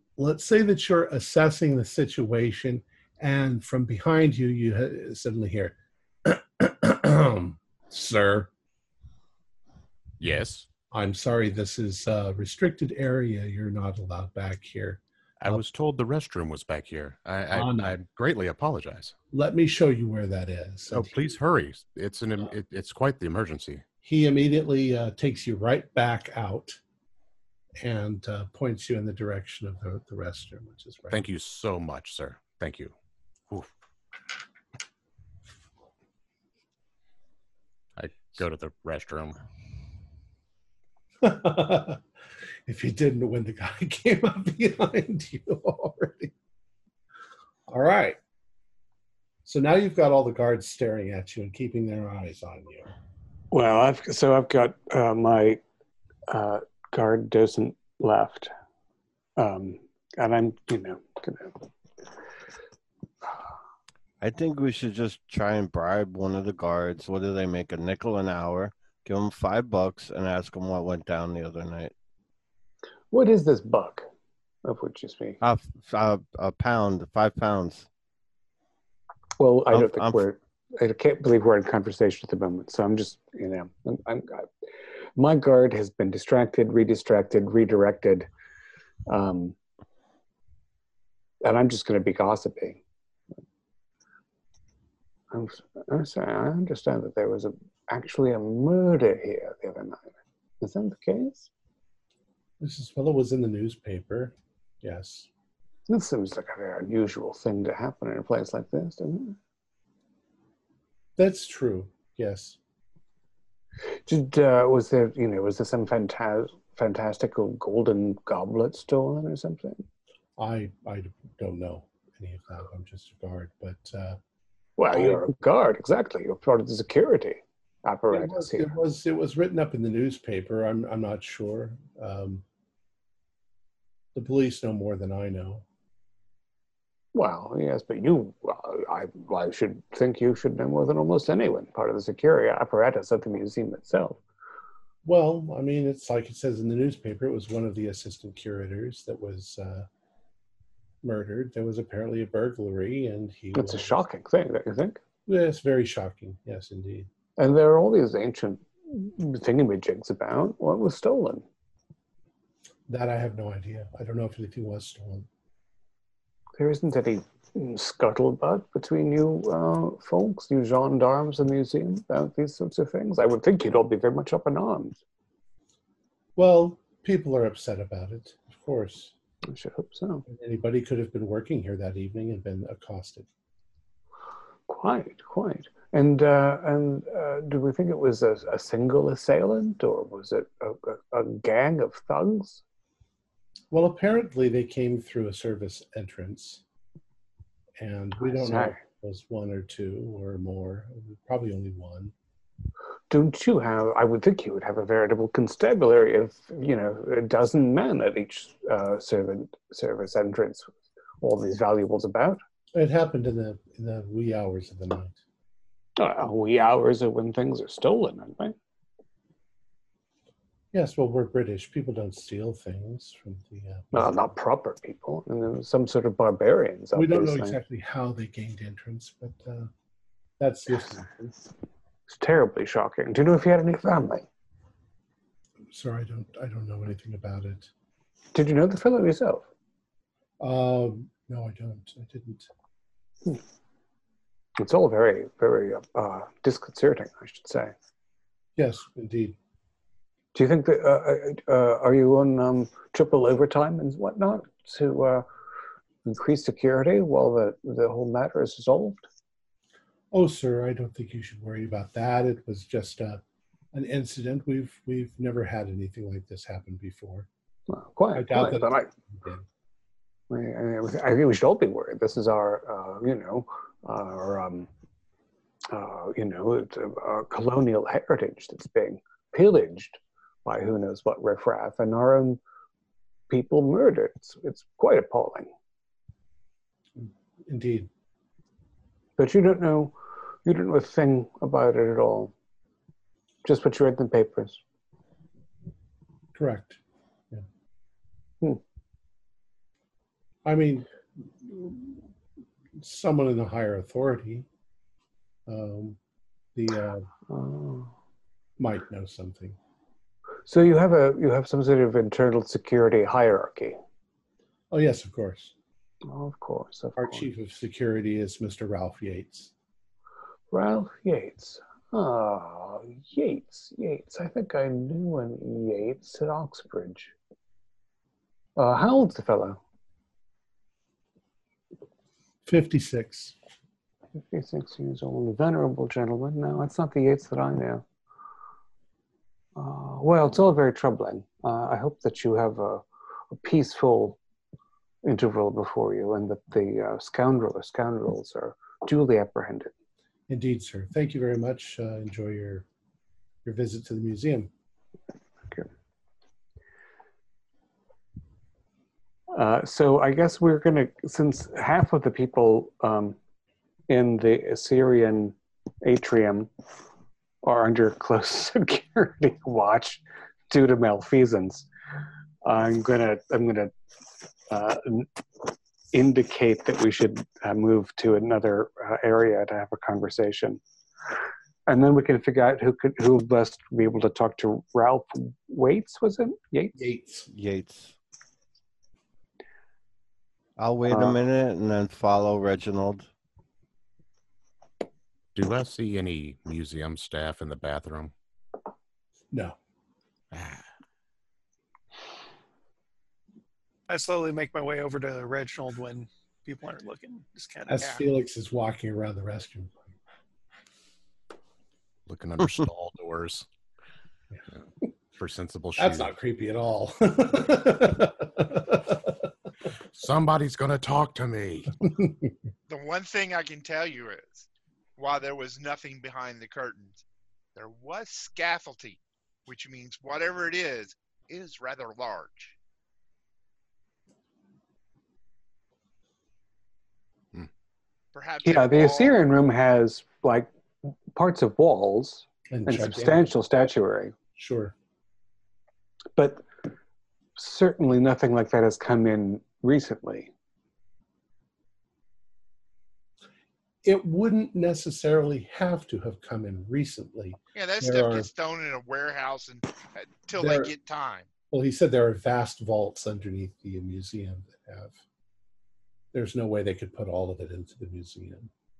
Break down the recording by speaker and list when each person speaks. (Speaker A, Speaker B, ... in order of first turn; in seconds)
Speaker A: 0.2-8.5, 10.9-15.6, 17.5-18.0, 19.3-21.2, 24.0-26.8, 27.8-31.2, 41.2-42.0, 42.7-46.3, 47.7-48.2, 49.5-52.9, 102.6-105.3, 111.2-112.6, 120.4-124.2, 124.9-125.3, 128.1-132.4, 134.2-135.7, 145.1-149.9, 151.0-154.0, 155.3-157.1, 162.9-165.3, 176.4-179.1, 180.3-183.3, 193.7-196.6, 197.8-202.1, 212.7-215.2, 220.7-224.3, 226.9-229.7, 230.4-231.3, 235.7-237.7, 240.4-242.5, 248.6-249.4, 260.1-263.2, 263.7-267.3, 268.1-269.5, 287.0-287.9, 296.4-296.8, 300.4-300.9, 301.4-302.1, 302.8-304.5, 305.5-306.0, 306.6-307.1, 308.6-309.6, 314.7-315.5, 317.0-319.5, 332.5-333.4, 350.3-352.7, 353.4-354.5, 386.8-387.3, 407.7-409.8, 415.8-419.3, 421.8-422.3, 442.5-443.3, 444.4-444.7, 453.8-458.3, 460.4-460.7, 461.5-465.0, 466.1-468.5
Speaker B: 10.2-10.7, 15.4-19.1, 20.9-23.8, 31.1-32.9, 38.0-39.4, 395.4-398.1, 400.3-400.6, 412.1-413.5, 415.2-416.1, 419.9-421.8
Speaker C: 53.5-55.6, 56.3-58.5, 59.4-61.6, 73.1-74.1, 74.6-75.4, 79.4-84.5, 85.2-88.3, 89.1-89.6, 91.4-92.8, 95.3-101.5, 105.9-109.4, 114.1-119.8, 124.8-128.7, 137.1-144.2, 153.5-155.0, 157.4-161.4, 166.6-175.0, 179.5-180.2, 184.7-192.6, 198.2-198.8, 203.1-212.4, 216.0-218.6, 223.9-227.6, 232.1-234.3, 238.3-239.4, 244.6-247.7, 250.3-255.3, 256.1-259.1, 267.7-268.9, 270.3-274.7, 275.7-282.4, 283.3-285.5, 289.2-292.3, 293.4-294.6, 307.3-307.9, 310.5-313.8, 316.1-317.3, 320.5-327.1, 328.6-329.6, 334.2-337.9, 339.6-344.2, 345.0-349.7, 359.3-363.2, 363.9-366.5, 367.4-371.7, 372.4-373.7, 374.5-375.1, 375.9-380.6, 381.7-386.8, 390.9-391.2, 438.4-444.1, 446.2-446.4, 447.4-450.3
Speaker D: 64.2-71.9, 75.4-77.9, 79.7-80.2, 387.3-388.0, 390.6-393.1
Speaker E: 403.9-407.9
Speaker F: 422.7-424.5, 425.0-427.0, 427.6-432.6, 438.1-439.2, 457.5-461.3